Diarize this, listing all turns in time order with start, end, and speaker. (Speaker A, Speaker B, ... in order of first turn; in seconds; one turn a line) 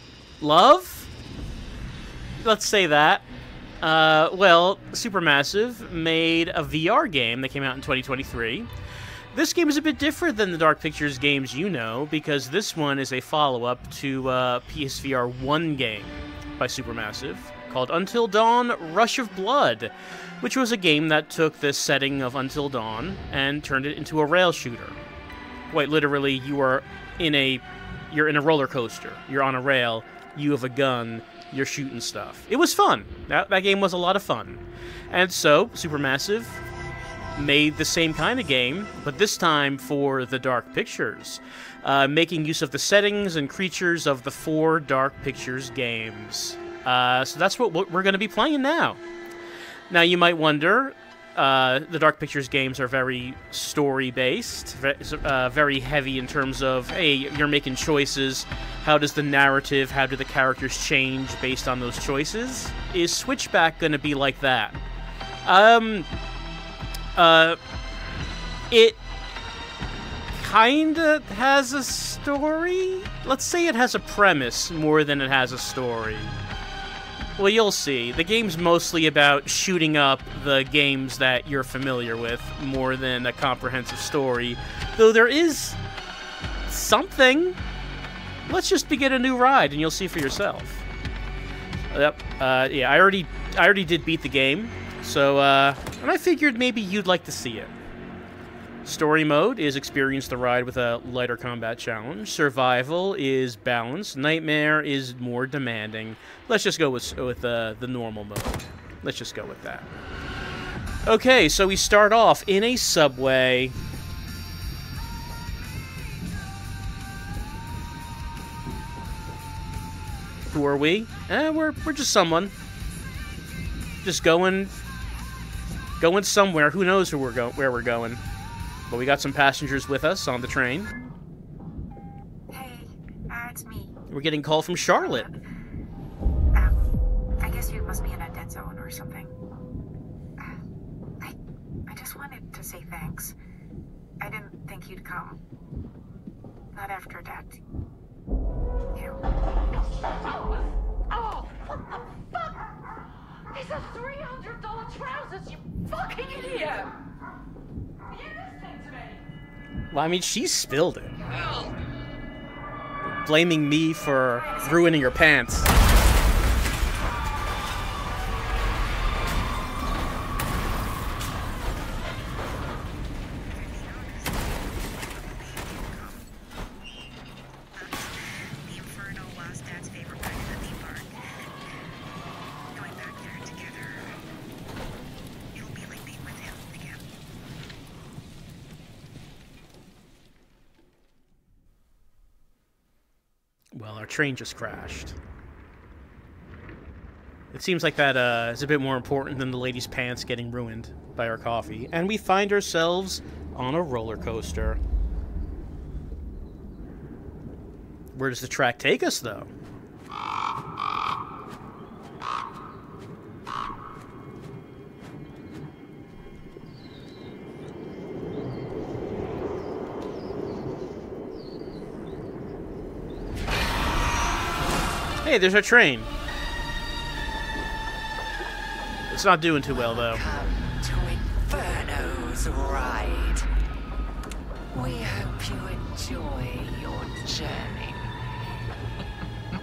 Speaker A: 0.4-1.1
Speaker A: 2.4-3.2
Speaker A: 3.8-8.7
Speaker A: 9.3-25.0
Speaker A: 25.7-36.6
Speaker A: 37.3-49.0
Speaker A: 49.9-64.8
Speaker A: 65.4-66.1
Speaker A: 67.2-67.6
Speaker A: 68.7-69.0
Speaker A: 70.3-76.4
Speaker A: 77.4-85.8
Speaker A: 86.7-87.6
Speaker A: 88.5-90.8
Speaker A: 91.9-97.7
Speaker A: 98.8-109.9
Speaker A: 111.0-113.8
Speaker A: 120.5-122.5
Speaker A: 124.0-124.7
Speaker A: 126.0-128.2
Speaker A: 128.9-130.9
Speaker B: 132.5-134.0
Speaker A: 134.1-135.3
Speaker B: 135.0-135.3
Speaker B: 136.5-136.8
Speaker B: 137.4-139.3
Speaker B: 141.2-143.4
Speaker B: 144.2-145.4
Speaker B: 146.7-147.6
Speaker B: 148.9-149.2
Speaker C: 151.1-152.6
Speaker C: 153.5-156.9
Speaker C: 158.1-159.2
Speaker A: 159.9-161.1
Speaker A: 163.1-165.7
Speaker B: 173.4-176.3
Speaker B: 177.7-182.1
Speaker B: 182.7-184.2
Speaker B: 185.5-187.1
Speaker A: 193.7-195.2
Speaker A: 197.5-204.8
Speaker A: 208.1-209.5
Speaker A: 225.2-226.1
Speaker A: 229.1-230.2
Speaker C: 229.7-233.4
Speaker C: 234.7-238.1